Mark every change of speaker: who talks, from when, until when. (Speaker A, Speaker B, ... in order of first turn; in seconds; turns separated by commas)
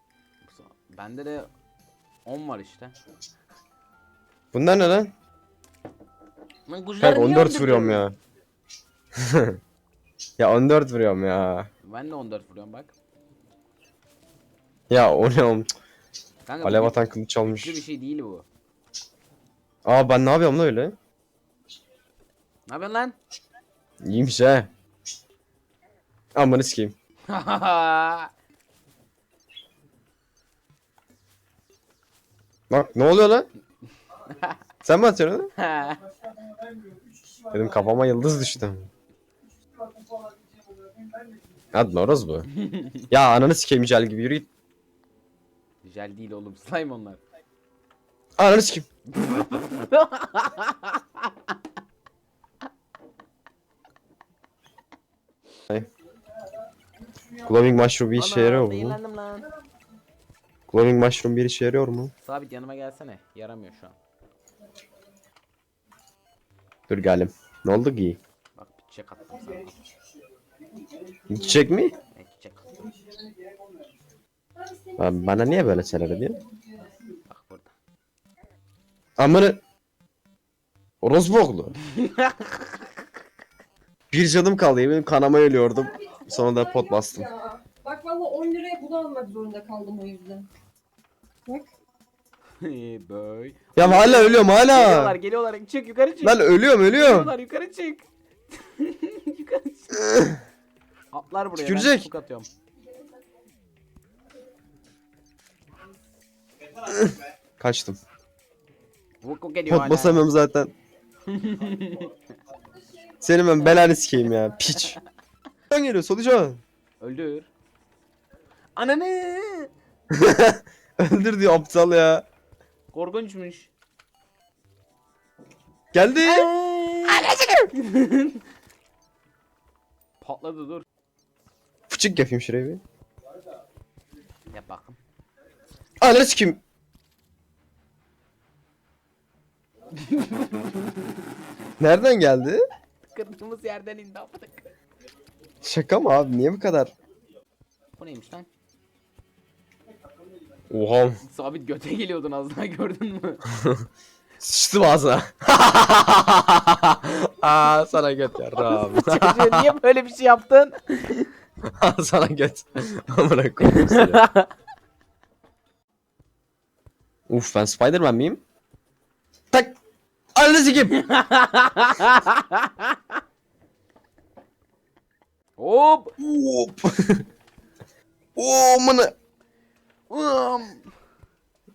Speaker A: 0.4-1.5, Speaker A: 2.2-2.9, Speaker B: 4.5-5.1, Speaker A: 6.7-8.1, Speaker B: 7.0-8.1, Speaker B: 9.2-9.6, Speaker B: 10.4-11.7, Speaker A: 11.8-12.9, Speaker B: 14.9-15.7, Speaker A: 16.5-18.5, Speaker B: 16.6-17.8, Speaker B: 19.9-20.9, Speaker A: 22.7-23.2, Speaker B: 24.0-24.7, Speaker B: 26.4-26.9, Speaker A: 27.3-28.3, Speaker B: 32.7-33.5, Speaker A: 34.3-34.6, Speaker B: 34.8-35.5, Speaker A: 35.6-36.0, Speaker B: 37.5-38.9, Speaker B: 41.7-42.5, Speaker A: 42.5-43.0, Speaker B: 43.1-44.5, Speaker A: 45.8-47.2, Speaker B: 48.4-48.9, Speaker A: 49.1-51.5, Speaker B: 57.4-59.0, Speaker A: 58.1-59.5, Speaker B: 60.7-62.1, Speaker A: 62.2-64.0, Speaker B: 66.9-68.2, Speaker A: 68.5-69.8, Speaker B: 71.3-71.9, Speaker A: 72.1-72.8, Speaker B: 75.0-76.4, Speaker A: 77.3-77.7, Speaker B: 79.2-79.6, Speaker B: 81.0-81.7, Speaker A: 81.9-82.8, Speaker B: 84.1-87.3, Speaker C: 87.5-90.5, Speaker A: 92.6-98.0, Speaker B: 93.8-95.2, Speaker B: 96.2-97.3, Speaker A: 98.5-100.0, Speaker B: 100.0-100.4, Speaker A: 101.1-102.5, Speaker B: 101.5-102.1, Speaker B: 106.9-108.0, Speaker A: 109.2-110.2, Speaker B: 109.7-110.7, Speaker A: 111.2-112.1, Speaker B: 113.2-115.0, Speaker B: 115.7-116.6, Speaker A: 117.0-117.5, Speaker A: 118.8-119.7, Speaker B: 120.1-122.2, Speaker A: 122.9-123.7, Speaker B: 125.9-126.5, Speaker A: 126.2-128.4, Speaker A: 130.2-130.9, Speaker B: 131.9-132.8, Speaker A: 134.5-135.0, Speaker B: 136.0-136.6, Speaker A: 139.9-141.2, Speaker B: 141.8-142.6, Speaker A: 143.1-144.7, Speaker B: 145.6-146.9, Speaker A: 148.0-148.5, Speaker B: 150.7-151.2, Speaker A: 151.2-153.5, Speaker B: 153.5-153.8, Speaker B: 154.4-159.7, Speaker A: 158.6-161.3, Speaker B: 161.8-164.2, Speaker A: 163.7-164.5, Speaker B: 167.3-168.4, Speaker B: 170.3-171.0, Speaker A: 171.0-173.0, Speaker A: 175.6-176.2, Speaker B: 176.2-177.2, Speaker B: 178.4-179.1, Speaker A: 180.1-180.9